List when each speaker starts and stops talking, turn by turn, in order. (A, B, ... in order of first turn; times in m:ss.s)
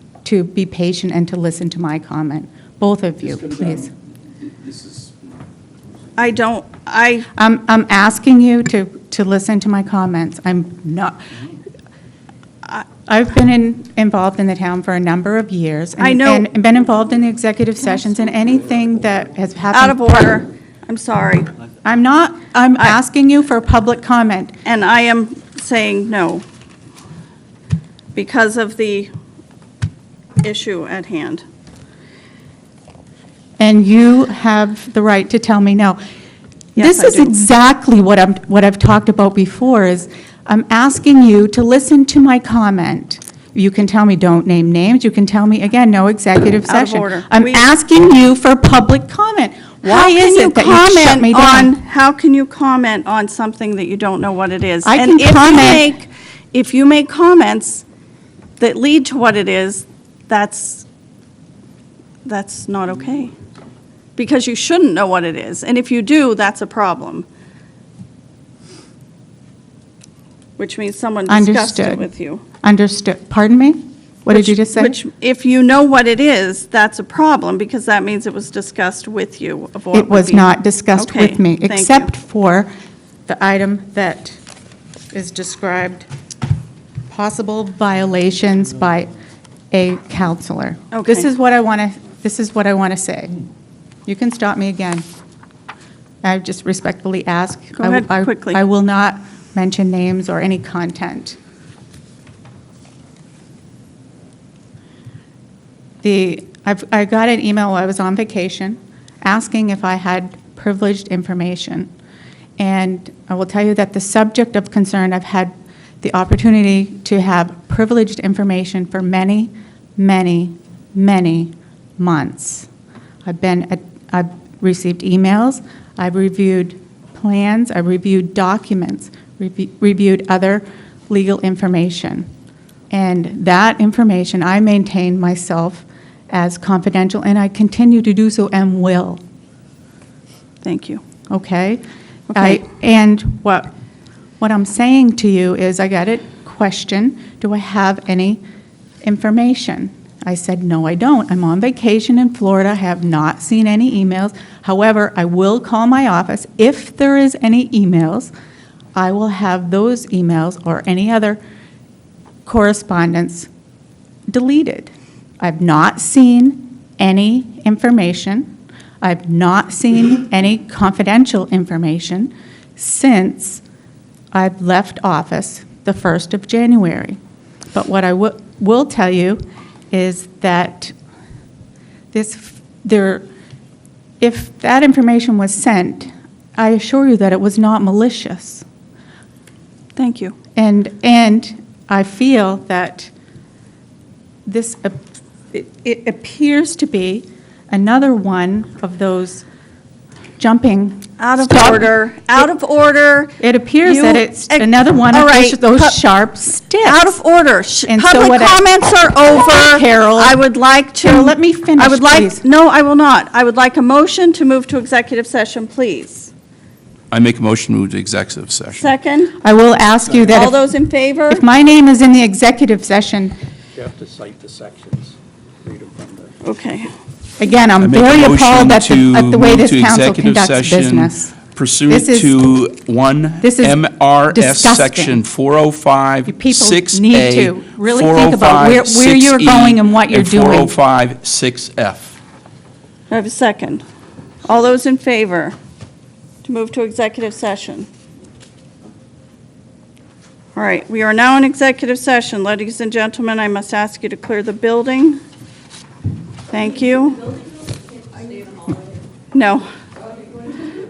0:00.2-0:03.9 A
0:06.2-0:07.3 B
0:07.3-0:11.2 A
0:13.0-0:20.4 A
0:16.0-0:16.5 B
0:19.7-0:21.5 B
0:21.8-0:24.6 A
0:24.6-0:26.4 B
0:28.1-0:29.1 B
0:30.4-0:31.4 B
0:33.6-0:36.0 A
0:36.8-0:37.3 B
0:36.8-0:51.7 A
0:46.7-0:47.6 B
0:49.8-0:57.8 B
0:54.8-0:55.9 A
0:58.6-1:00.8 B
1:02.2-1:03.3 B
1:04.2-1:07.2 B
1:10.6-1:12.4 B
1:11.3-1:12.0 A
1:12.6-1:15.0 A
1:14.3-1:22.1 B
1:19.9-1:22.7 A
1:23.3-1:24.4 A
1:25.1-1:26.1 A
1:27.1-1:29.1 A
1:29.7-1:33.4 A
1:30.9-1:31.3 B
1:34.0-1:35.0 A
1:36.2-1:41.4 A
1:37.8-1:38.6 B
1:46.0-1:51.9 A
1:52.6-2:02.7 A
2:03.2-2:12.3 A
2:12.9-2:19.2 A
2:20.6-2:21.0 B
2:21.3-2:21.8 A
2:22.3-2:22.6 B
2:22.3-2:23.7 A
2:24.4-2:28.4 A
2:29.0-2:38.3 A
2:38.9-2:41.4 A
2:42.4-2:43.5 A
2:44.3-2:53.6 A
2:54.3-2:57.2 A
2:57.7-3:00.9 A
3:02.1-3:03.2 A
3:04.2-3:08.6 A
3:10.0-3:10.3 B
3:10.5-3:13.1 A
3:14.4-3:15.0 A
3:15.5-3:19.4 A
3:20.4-3:21.9 A
3:21.2-3:26.0 B
3:23.4-3:27.2 A
3:26.8-3:36.3 B
3:27.9-3:28.6 A
3:29.5-3:30.4 A
3:31.0-3:32.4 A
3:37.1-3:38.9 C
3:38.7-3:39.3 B
3:39.4-3:40.6 A
3:40.3-3:41.4 B
3:41.3-3:43.3 A
3:43.7-3:46.4 D
3:46.4-3:46.9 B
3:47.4-3:51.3 A
3:47.8-4:02.2 C
3:51.9-3:52.3 A
3:53.4-3:55.2 A
3:56.3-4:00.7 A
4:03.1-4:03.8 B
4:04.4-4:05.6 B
4:06.4-4:07.9 B
4:10.5-4:15.2 B
4:16.5-4:17.4 B
4:19.3-4:19.7 B